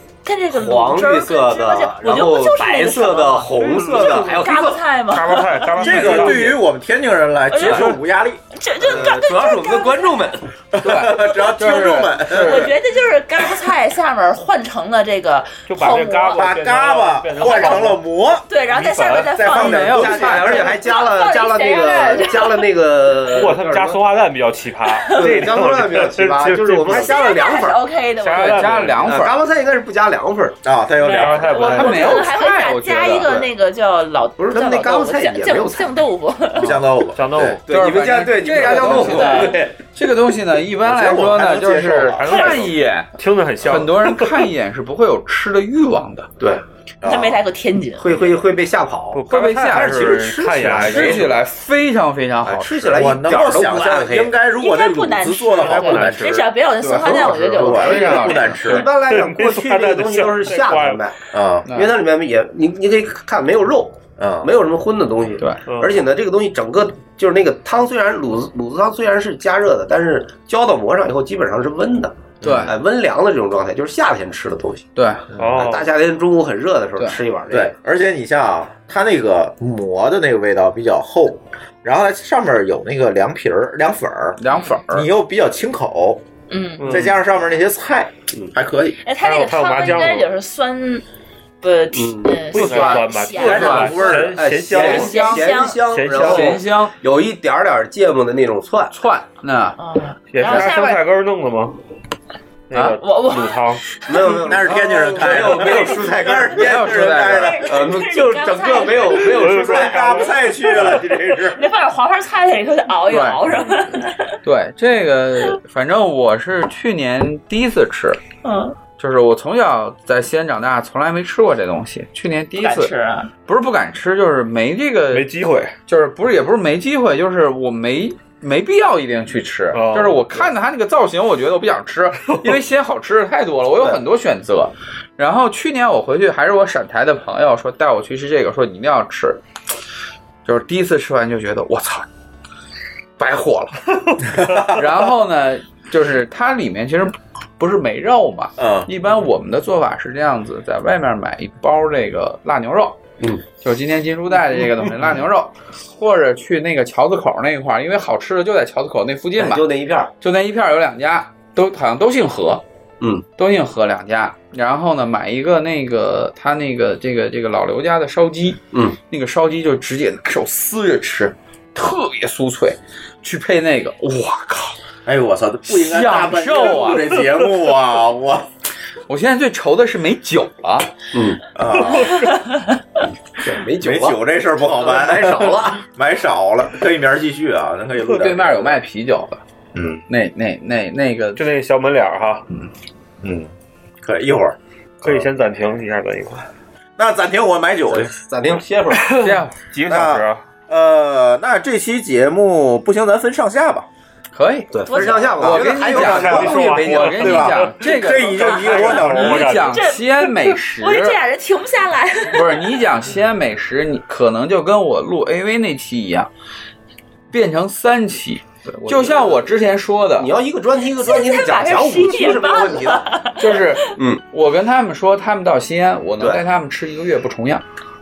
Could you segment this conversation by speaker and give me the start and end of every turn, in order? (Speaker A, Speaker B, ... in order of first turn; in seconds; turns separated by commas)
Speaker A: 0.2-6.0, Speaker B: 0.5-4.8, Speaker C: 3.5-4.5, Speaker C: 5.1-6.6, Speaker D: 5.8-8.4, Speaker E: 5.8-6.6, Speaker A: 7.5-7.9, Speaker C: 7.6-8.0, Speaker A: 8.5-10.2, Speaker B: 8.8-10.5, Speaker D: 10.7-12.7, Speaker E: 10.8-12.7, Speaker A: 11.3-11.7, Speaker A: 12.3-16.4, Speaker C: 15.7-18.0, Speaker D: 16.4-18.4, Speaker A: 17.3-22.7, Speaker C: 18.7-19.5, Speaker D: 19.3-20.7, Speaker E: 19.5-20.6, Speaker B: 20.0-24.0, Speaker C: 23.2-27.2, Speaker A: 24.9-25.4, Speaker B: 25.1-27.8, Speaker A: 26.9-28.8, Speaker C: 28.2-29.2, Speaker E: 28.4-29.4, Speaker B: 29.0-30.6, Speaker D: 30.6-31.6, Speaker A: 31.0-36.8, Speaker C: 31.1-32.2, Speaker B: 31.5-32.3, Speaker E: 31.7-33.5, Speaker B: 34.4-35.9, Speaker D: 36.5-37.6, Speaker C: 37.1-37.6, Speaker B: 37.6-39.7, Speaker E: 37.7-43.1, Speaker D: 40.8-42.6, Speaker C: 42.1-44.5, Speaker A: 42.3-42.6, Speaker E: 43.6-46.3, Speaker B: 46.4-47.4, Speaker D: 47.0-47.3, Speaker A: 47.0-48.3, Speaker B: 48.0-51.3, Speaker C: 49.1-51.4, Speaker E: 49.3-53.2, Speaker B: 52.4-54.3, Speaker D: 52.9-58.9, Speaker A: 54.5-58.3, Speaker C: 55.5-61.1, Speaker E: 57.7-58.8, Speaker B: 57.9-61.1, Speaker D: 61.3-61.6, Speaker E: 61.6-61.9, Speaker B: 61.7-74.9, Speaker D: 64.2-64.5, Speaker C: 65.6-66.0, Speaker D: 72.4-72.7, Speaker E: 72.4-72.7, Speaker E: 75.0-75.2, Speaker C: 75.4-75.9, Speaker B: 75.5-77.7, Speaker D: 77.5-84.4, Speaker E: 84.4-85.1, Speaker A: 84.5-84.8, Speaker D: 84.9-86.2, Speaker A: 86.5-87.0, Speaker C: 86.8-87.2, Speaker D: 86.8-89.0, Speaker A: 89.0-91.0, Speaker C: 89.2-90.3, Speaker A: 91.6-93.9, Speaker B: 91.9-93.1, Speaker C: 92.5-95.2, Speaker D: 93.4-94.4, Speaker E: 93.5-94.0, Speaker B: 94.3-98.9, Speaker E: 94.7-96.9, Speaker A: 94.8-95.8, Speaker C: 95.8-96.6, Speaker E: 98.9-99.8, Speaker A: 99.8-101.0, Speaker C: 100.3-101.8, Speaker E: 100.4-100.7, Speaker C: 102.7-103.8, Speaker E: 102.7-103.0, Speaker A: 103.0-104.3, Speaker B: 104.1-106.7, Speaker D: 104.4-107.7, Speaker E: 106.5-107.6, Speaker A: 107.3-109.5, Speaker B: 107.6-110.3, Speaker C: 109.2-111.0, Speaker D: 109.6-111.6, Speaker A: 110.8-114.3, Speaker E: 113.1-113.4, Speaker E: 114.4-118.2, Speaker A: 118.4-118.8, Speaker E: 119.0-122.9, Speaker A: 122.6-123.3, Speaker E: 123.5-125.3, Speaker C: 125.1-125.7, Speaker E: 125.9-139.4, Speaker C: 129.7-130.5, Speaker E: 140.4-142.1, Speaker E: 143.2-152.9, Speaker D: 144.4-144.7, Speaker D: 148.6-148.9, Speaker E: 153.6-159.6, Speaker B: 159.4-160.1, Speaker E: 160.2-162.6, Speaker E: 163.4-174.8, Speaker B: 168.7-169.0, Speaker D: 175.1-178.5, Speaker E: 175.7-177.2, Speaker E: 179.1-180.9, Speaker B: 181.1-181.4, Speaker D: 181.6-182.2, Speaker C: 181.9-182.2, Speaker A: 182.3-182.6, Speaker B: 183.4-184.2, Speaker D: 183.8-188.8, Speaker B: 184.8-185.8, Speaker E: 188.1-189.4, Speaker D: 189.7-190.0, Speaker E: 190.1-191.4, Speaker C: 191.3-192.4, Speaker D: 193.2-193.5, Speaker D: 194.0-195.2, Speaker C: 195.0-196.5, Speaker D: 197.0-198.1, Speaker B: 197.9-199.3, Speaker C: 198.9-200.4, Speaker E: 199.2-199.6, Speaker D: 199.9-203.9, Speaker E: 204.3-204.8, Speaker B: 204.7-207.4, Speaker A: 204.9-205.5, Speaker E: 205.4-211.2, Speaker D: 205.5-209.6, Speaker C: 206.0-209.9, Speaker A: 209.5-212.6, Speaker E: 212.3-216.3, Speaker E: 217.3-220.3, Speaker B: 218.7-219.3, Speaker B: 220.2-223.1, Speaker A: 220.9-223.9, Speaker E: 223.4-227.6, Speaker B: 223.9-224.2